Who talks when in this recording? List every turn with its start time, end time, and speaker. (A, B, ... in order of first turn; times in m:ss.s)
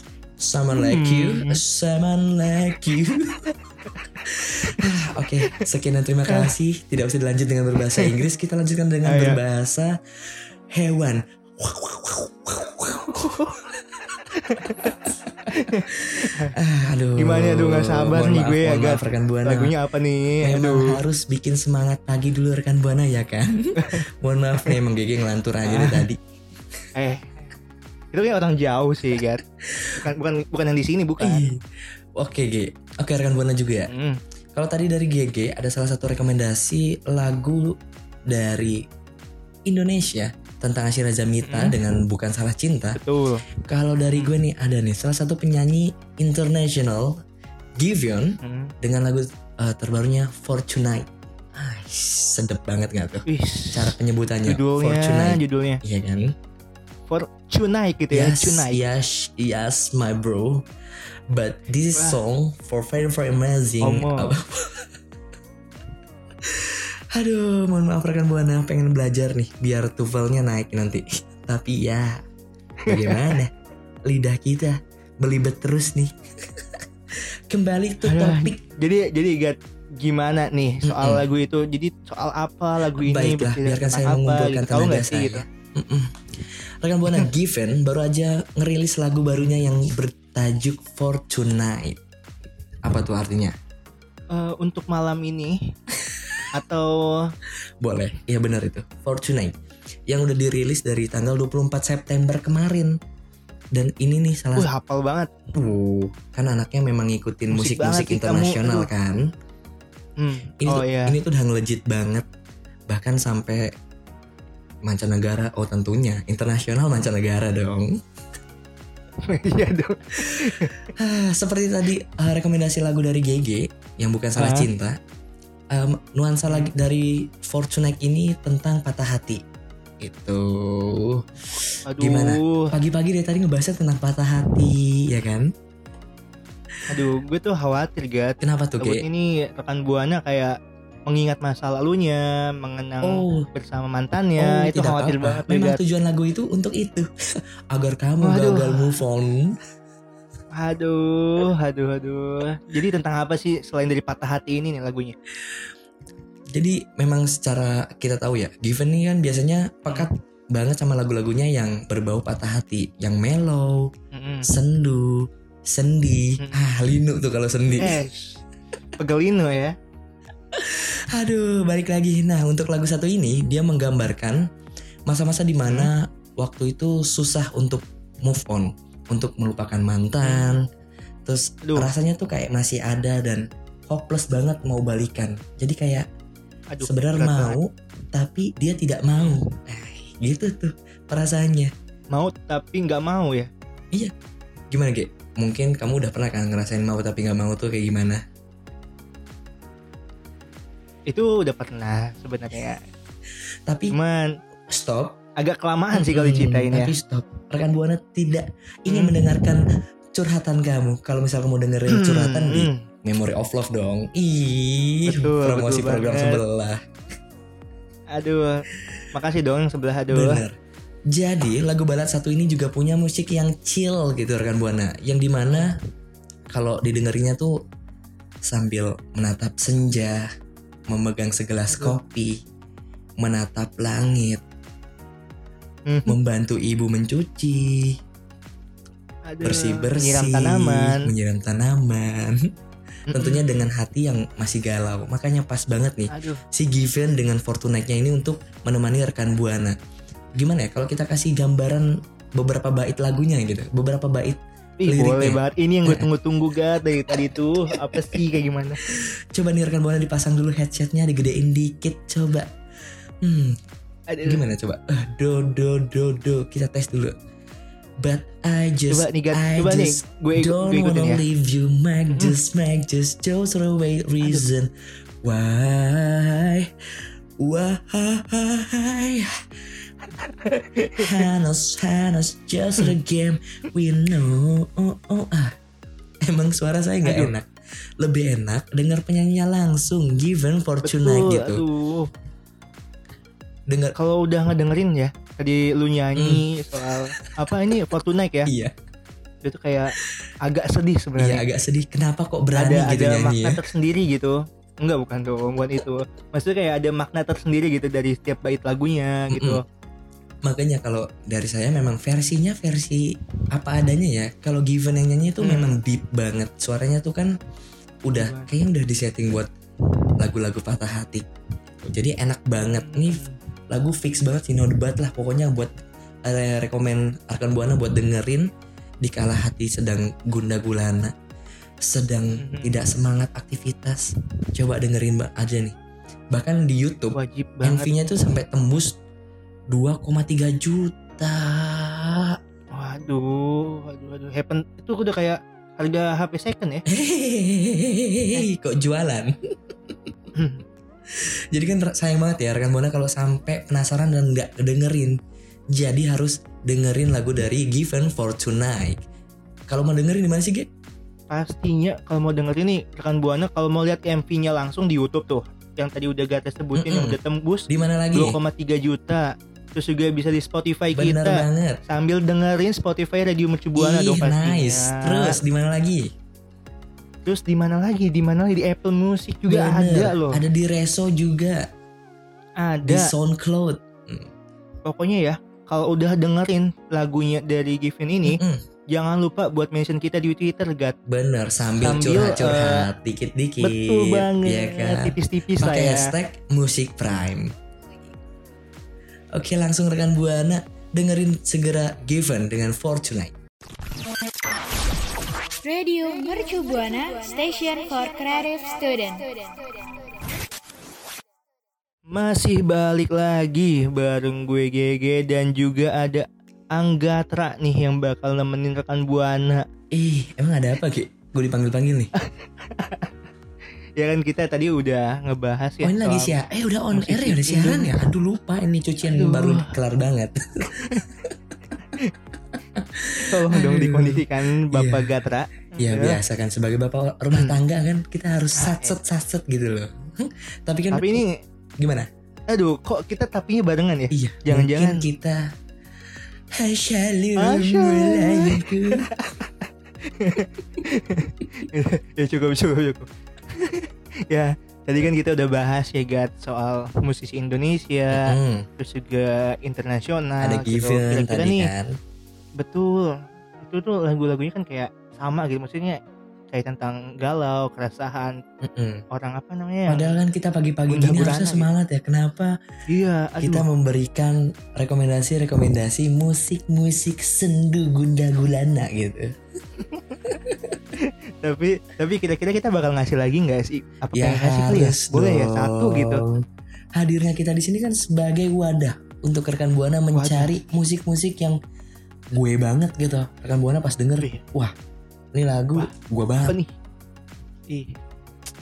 0:00.4-0:03.5 A
0:00.7-0:01.6 B
0:04.2-0:09.9 A
0:09.0-0:09.4 B
0:10.7-0:13.8 A
0:13.1-0:13.5 B
0:14.4-0:15.0 B
0:14.8-0:19.7 A
0:15.5-0:16.5 B
0:17.2-0:21.0 B
0:20.4-0:26.2 A
0:25.7-0:26.0 B
0:26.9-0:27.5 B
0:28.1-0:29.4 B
0:29.7-0:30.0 A
0:30.0-0:31.5 B
0:31.2-0:31.6 A
0:32.2-0:33.9 A
0:33.9-0:34.2 B
0:34.5-0:37.8 A
0:38.3-0:38.8 A
0:39.6-0:43.0 A
0:41.4-0:41.8 B
0:43.0-0:43.5 B
0:43.6-0:47.2 A
0:47.8-0:56.3 A
0:48.4-0:48.7 B
0:53.3-0:53.9 B
0:54.4-0:55.8 B
0:57.1-0:58.8 B
0:58.1-1:00.7 A
1:01.3-1:04.9 A
1:03.8-1:04.3 B
1:06.4-1:12.2 A
1:12.9-1:13.2 B
1:12.9-1:13.5 A
1:14.0-1:16.8 A
1:17.5-1:18.6 A
1:18.0-1:25.4 B
1:20.8-1:21.2 A
1:22.9-1:32.0 A
1:32.8-1:33.6 A
1:34.3-1:35.7 B
1:36.5-1:37.3 B
1:37.8-1:39.5 A
1:40.1-1:43.0 A
1:43.7-1:44.7 A
1:44.6-1:45.3 B
1:45.5-1:49.2 A
1:47.5-1:48.9 B
1:50.2-1:51.1 B
1:50.6-1:52.2 A
1:52.9-1:53.7 A
1:54.8-1:57.9 A
1:59.2-2:00.7 B
2:00.3-2:05.0 A
2:04.4-2:04.7 B
2:05.7-2:09.4 A
2:10.0-2:15.5 A
2:11.9-2:12.7 B
2:16.9-2:20.5 B
2:18.4-2:19.0 A
2:21.1-2:25.8 B
2:23.0-2:23.5 A
2:24.4-2:27.1 A
2:27.7-2:29.6 A
2:28.2-2:28.9 B
2:30.5-2:35.2 B
2:36.5-2:43.9 A
2:44.1-2:44.5 B
2:44.5-2:48.0 A
2:47.7-2:48.4 B
2:49.0-2:49.7 B
2:50.5-2:54.4 A
2:55.1-3:00.6 A
3:00.2-3:00.6 B
3:01.2-3:06.1 A
3:06.7-3:07.6 B
3:06.8-3:11.7 A
3:12.1-3:13.5 B
3:14.7-3:18.2 A
3:21.1-3:22.8 B
3:23.7-3:23.9 A
3:23.9-3:24.3 B
3:24.7-3:25.2 A
3:25.4-3:26.9 B
3:25.9-3:36.8 A
3:28.9-3:29.2 B
3:31.9-3:32.8 B
3:35.0-3:36.4 B
3:38.1-3:40.4 B
3:40.1-3:40.6 A
3:41.1-3:45.7 A
3:46.5-3:47.5 A
3:48.4-3:50.2 A
3:50.9-3:52.4 A
3:51.7-3:52.0 B
3:53.2-3:54.4 A
3:55.9-3:56.1 B
3:56.0-3:58.0 A
3:59.3-4:01.1 B
3:59.4-4:02.5 A
4:03.1-4:03.6 B
4:03.1-4:09.8 A
4:06.1-4:06.4 B
4:10.3-4:16.0 A
4:14.8-4:18.8 B
4:18.8-4:22.5 A
4:23.2-4:23.6 A
4:24.1-4:24.4 B
4:24.2-4:27.1 A
4:28.0-4:34.7 A
4:28.9-4:31.2 B
4:34.2-4:34.5 B
4:35.2-4:36.7 A
4:37.4-4:39.4 A
4:40.2-4:41.2 B
4:41.0-4:45.5 A
4:46.2-4:47.5 A
4:47.0-4:47.3 B
4:48.0-4:51.6 A
4:50.8-4:52.1 B
4:53.7-4:53.9 A
4:54.0-4:58.5 B
4:56.2-4:57.0 A
4:58.4-4:58.7 A
4:59.4-5:01.4 B
5:01.2-5:03.6 A
5:02.6-5:09.6 B
5:09.3-5:09.6 A
5:10.4-5:17.3 A
5:15.4-5:15.7 B
5:18.0-5:19.5 A
5:18.1-5:18.5 B
5:20.2-5:21.3 A
5:21.8-5:25.7 A
5:22.6-5:23.4 B
5:26.2-5:28.5 A
5:29.0-5:31.1 A
5:31.8-5:35.8 A
5:32.4-5:32.8 B
5:36.3-5:39.0 A
5:37.1-5:37.9 B
5:39.7-5:42.4 A
5:42.7-5:46.8 B
5:46.9-5:50.1 A
5:50.4-5:50.6 B
5:51.1-5:55.2 A
5:55.7-5:59.0 A
5:59.7-6:00.7 A
6:01.3-6:15.4 B
6:06.7-6:07.2 A
6:07.7-6:08.4 A
6:10.9-6:11.8 A
6:13.7-6:16.1 A
6:17.2-6:20.4 B
6:19.5-6:21.7 A
6:22.6-6:23.1 B
6:22.8-6:24.3 A
6:24.8-6:28.4 B
6:28.2-6:28.6 A
6:28.9-6:31.0 B
6:31.1-6:37.5 A
6:31.8-6:32.9 B
6:33.6-6:36.1 B
6:39.3-6:43.3 A
6:45.6-6:49.3 C
6:52.1-6:59.6 B
6:59.9-7:02.1 A
7:02.2-7:03.1 B
7:04.0-7:06.3 B
7:05.8-7:11.3 A
7:06.9-7:08.0 B
7:09.1-7:09.7 B
7:12.7-7:15.2 A
7:13.2-7:16.2 B
7:15.8-7:21.2 A
7:18.6-7:18.9 B
7:20.9-7:21.4 B
7:21.8-7:22.1 A
7:22.5-7:25.0 B
7:24.1-7:25.5 A
7:26.6-7:29.0 A
7:27.4-7:41.7 B
7:38.1-7:38.6 A
7:40.4-7:41.9 A
7:42.6-7:46.0 B
7:46.5-7:48.4 B
7:48.6-7:49.0 A
7:49.1-7:50.2 B
7:49.9-7:52.5 A
7:50.9-7:51.7 B
7:52.9-7:53.6 B
7:53.4-7:59.3 A
7:59.8-8:00.2 B
8:00.3-8:00.8 A
8:01.0-8:06.2 B
8:04.1-8:06.4 A
8:06.9-8:11.6 A
8:10.1-8:10.5 B
8:12.3-8:14.7 A
8:15.3-8:16.6 A
8:17.7-8:18.0 B